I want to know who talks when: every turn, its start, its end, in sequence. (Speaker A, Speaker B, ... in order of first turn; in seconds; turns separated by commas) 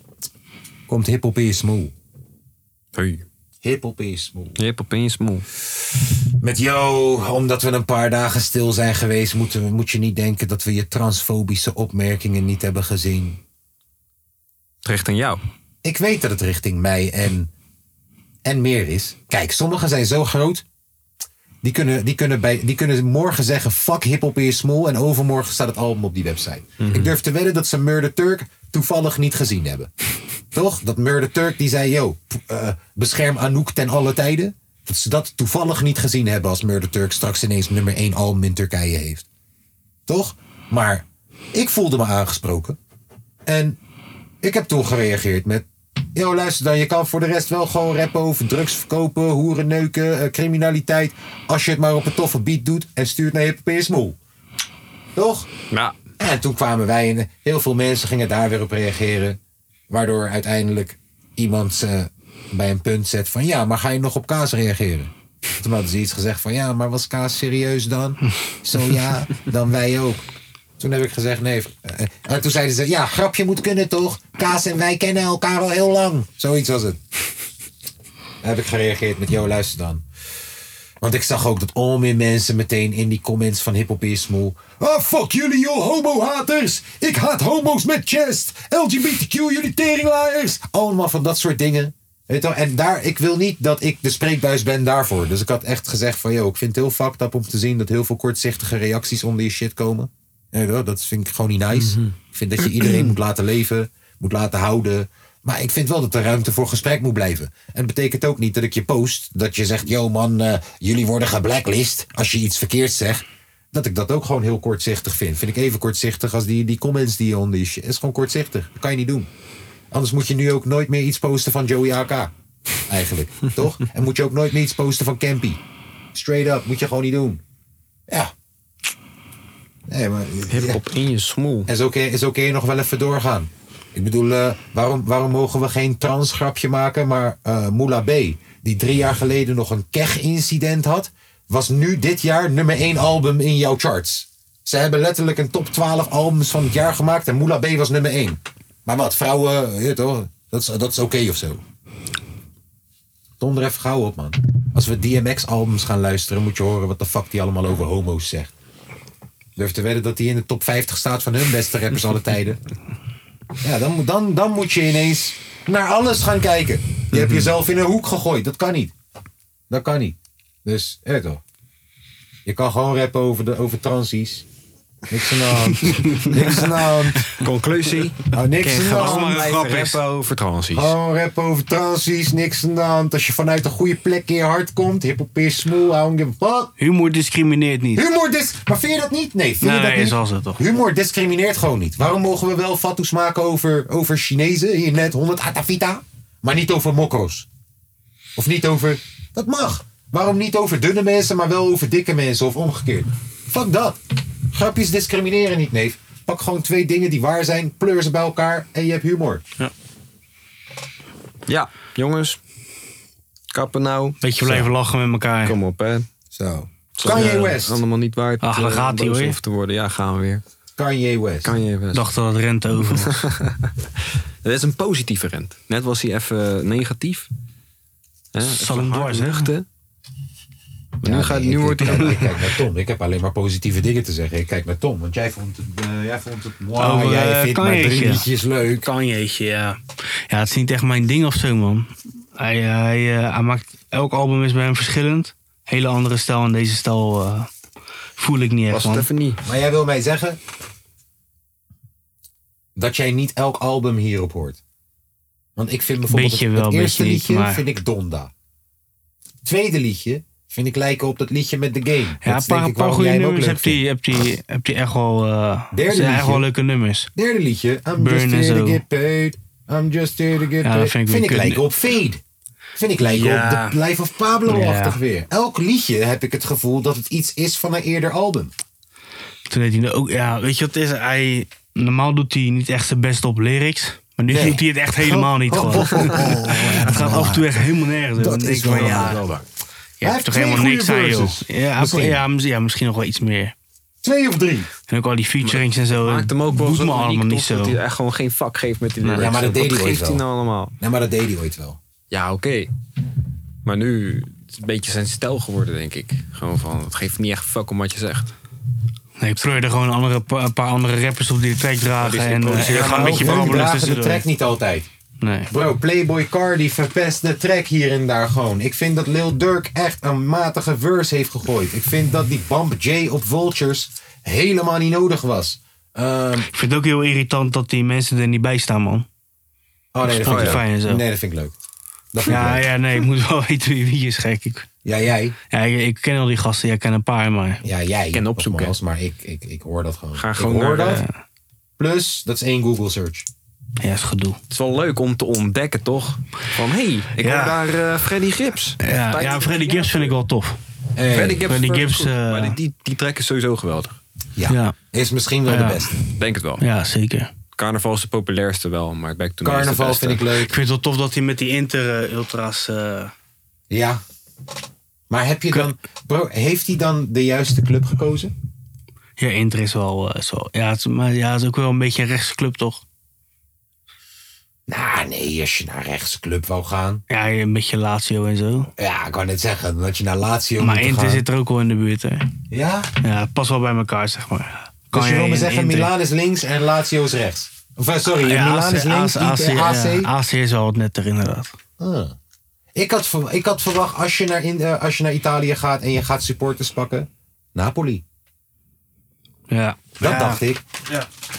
Speaker A: 0.9-1.9, Speaker B: 3.0-3.2, Speaker A: 3.6-4.6, Speaker B: 4.6-5.5, Speaker A: 6.4-13.4, Speaker B: 14.8-15.4, Speaker A: 15.8-17.5, Speaker A: 18.4-20.6, Speaker A: 21.6-29.9, Speaker B: 26.8-27.1, Speaker A: 30.5-39.3, Speaker A: 40.1-42.8, Speaker A: 43.5-43.8, Speaker A: 44.4-54.2, Speaker A: 55.1-55.5, Speaker A: 56.2-59.4, Speaker A: 59.9-70.2, Speaker A: 70.8-77.0, Speaker A: 78.4-80.0, Speaker A: 81.0-119.3, Speaker B: 101.8-102.1, Speaker A: 119.9-122.3, Speaker A: 122.9-125.6, Speaker A: 126.1-127.4, Speaker A: 129.9-130.8, Speaker B: 130.5-131.7, Speaker A: 131.7-151.6, Speaker A: 153.4-158.5, Speaker A: 159.6-162.6, Speaker A: 163.6-168.9, Speaker B: 167.1-167.5, Speaker A: 169.7-171.4, Speaker A: 172.4-174.5, Speaker A: 175.1-177.3, Speaker C: 175.9-176.3, Speaker B: 177.3-180.9, Speaker A: 178.3-179.4, Speaker C: 178.9-180.0, Speaker A: 180.7-186.7, Speaker C: 186.8-188.1, Speaker A: 187.9-197.5, Speaker C: 189.6-190.6, Speaker A: 198.4-204.0, Speaker A: 204.5-209.4, Speaker B: 211.5-212.4, Speaker B: 213.5-214.7, Speaker C: 214.2-215.6, Speaker B: 215.4-216.1, Speaker A: 216.3-217.8, Speaker B: 216.9-220.4, Speaker C: 217.1-217.4, Speaker C: 218.4-219.4, Speaker A: 220.8-221.5, Speaker B: 221.4-222.1, Speaker C: 221.9-223.2, Speaker B: 223.0-223.7, Speaker B: 224.4-227.3, Speaker B: 228.3-229.7, Speaker C: 228.4-229.5, Speaker B: 231.0-232.4, Speaker A: 231.0-238.9, Speaker C: 236.8-238.3, Speaker C: 238.8-239.8, Speaker C: 240.3-247.5, Speaker C: 248.2-249.1, Speaker B: 248.7-249.4, Speaker A: 249.4-250.4, Speaker A: 252.8-254.6, Speaker A: 255.6-258.3, Speaker C: 256.1-257.6, Speaker A: 259.4-263.8, Speaker C: 262.2-267.1, Speaker A: 265.7-266.5, Speaker A: 267.1-272.2, Speaker C: 268.0-268.8, Speaker C: 270.6-271.6, Speaker A: 272.8-278.5, Speaker C: 273.1-273.7, Speaker B: 273.3-273.6, Speaker C: 274.5-275.0, Speaker C: 279.5-289.2, Speaker A: 284.3-287.6, Speaker A: 288.2-289.4, Speaker C: 290.0-293.6, Speaker A: 290.0-292.2, Speaker A: 294.0-294.7, Speaker C: 294.9-297.8, Speaker B: 295.4-300.7, Speaker C: 299.0-299.3, Speaker A: 299.1-300.2, Speaker A: 300.8-301.8, Speaker B: 302.1-302.7, Speaker B: 303.6-308.3, Speaker C: 309.2-314.2, Speaker B: 312.0-313.5, Speaker A: 312.6-314.9, Speaker C: 315.2-315.5, Speaker A: 315.5-326.5, Speaker C: 326.5-329.1, Speaker A: 329.9-331.6, Speaker C: 330.1-331.0, Speaker B: 330.2-330.6, Speaker A: 332.1-332.7, Speaker C: 332.3-334.7, Speaker A: 334.9-335.4, Speaker C: 335.5-337.6, Speaker A: 337.6-341.1, Speaker B: 338.1-338.8, Speaker B: 340.1-341.0, Speaker A: 341.8-343.3, Speaker C: 343.8-344.4, Speaker B: 344.5-350.1, Speaker C: 347.2-347.6, Speaker C: 348.8-350.6, Speaker A: 351.0-351.4, Speaker B: 351.1-354.0, Speaker C: 351.5-352.6, Speaker A: 354.4-356.0, Speaker C: 354.5-354.8, Speaker C: 355.5-355.9, Speaker B: 356.2-356.6, Speaker C: 356.6-357.3, Speaker B: 357.6-360.3, Speaker A: 359.4-360.5, Speaker C: 360.4-363.1, Speaker A: 363.7-364.0, Speaker A: 365.1-368.3, Speaker C: 369.2-372.8, Speaker A: 374.7-377.0, Speaker C: 377.1-378.7, Speaker A: 378.8-381.2, Speaker C: 380.6-382.3, Speaker A: 382.5-382.9, Speaker C: 383.0-385.9, Speaker A: 384.9-390.1, Speaker C: 388.1-391.5, Speaker A: 391.8-392.2, Speaker A: 392.8-398.0, Speaker C: 399.5-401.1, Speaker A: 400.0-400.6